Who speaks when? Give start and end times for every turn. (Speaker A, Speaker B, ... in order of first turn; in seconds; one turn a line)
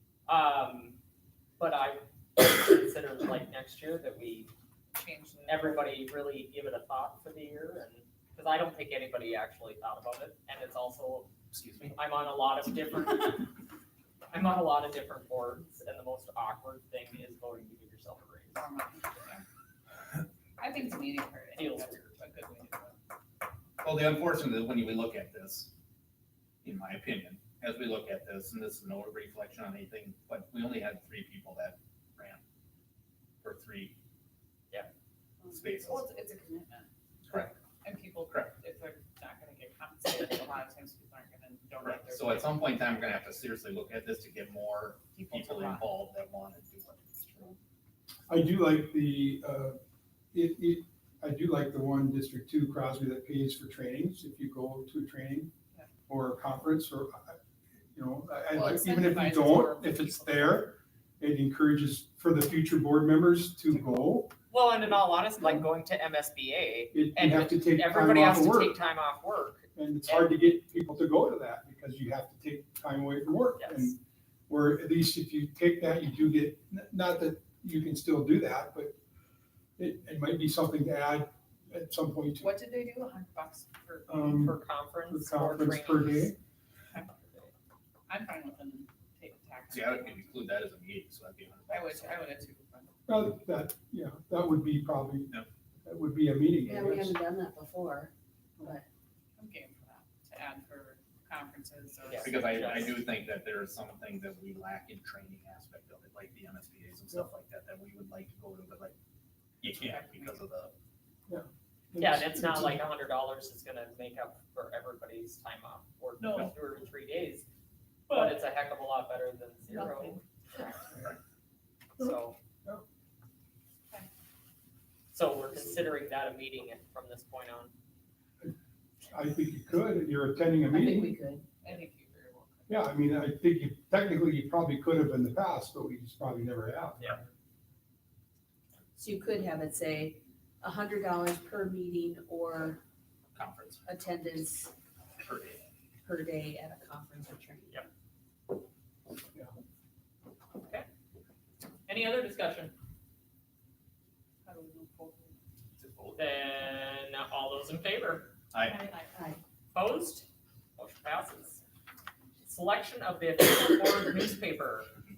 Speaker A: 0.3-1.0
Speaker A: 1.6-4.5
Speaker B: 5.0-6.0
Speaker A: 5.5-11.3
Speaker C: 11.5-12.0
Speaker A: 11.9-13.5
Speaker A: 14.3-18.6
Speaker B: 18.5-19.4
Speaker B: 20.6-23.0
Speaker A: 21.5-22.1
Speaker C: 23.8-25.7
Speaker C: 26.6-32.4
Speaker C: 33.4-34.0
Speaker C: 35.5-36.0
Speaker B: 35.6-36.9
Speaker C: 37.3-37.5
Speaker B: 37.8-42.8
Speaker C: 38.2-38.5
Speaker C: 41.8-47.5
Speaker B: 45.1-46.0
Speaker D: 48.3-49.8
Speaker D: 50.3-55.5
Speaker D: 56.1-57.4
Speaker D: 57.9-64.3
Speaker B: 58.5-60.7
Speaker A: 64.5-70.4
Speaker D: 66.9-68.8
Speaker D: 69.8-78.9
Speaker A: 73.6-73.9
Speaker D: 79.8-82.5
Speaker B: 82.4-84.3
Speaker D: 84.1-86.3
Speaker A: 84.2-86.3
Speaker A: 87.1-87.5
Speaker B: 88.1-90.5
Speaker C: 89.7-92.2
Speaker B: 91.7-93.0
Speaker D: 93.1-97.2
Speaker E: 96.6-98.8
Speaker B: 99.4-103.0
Speaker A: 102.1-102.9
Speaker C: 102.2-108.9
Speaker C: 109.6-110.7
Speaker B: 109.7-110.4
Speaker D: 111.3-112.8
Speaker A: 112.0-117.4
Speaker B: 116.2-116.5
Speaker B: 118.1-118.4
Speaker A: 118.1-120.7
Speaker B: 119.7-120.7
Speaker A: 122.0-122.3
Speaker A: 125.1-127.7
Speaker D: 129.1-131.1
Speaker E: 130.7-131.4
Speaker B: 131.6-132.9
Speaker D: 132.7-137.3
Speaker E: 139.0-142.8
Speaker C: 143.3-143.8
Speaker E: 143.8-144.7
Speaker C: 145.2-145.6
Speaker E: 146.1-147.8
Speaker A: 150.6-150.9
Speaker A: 151.9-152.7
Speaker B: 154.4-155.4
Speaker C: 155.8-156.2
Speaker A: 156.2-158.3
Speaker C: 158.5-158.8
Speaker E: 158.7-159.4
Speaker A: 159.7-161.6
Speaker A: 162.4-164.9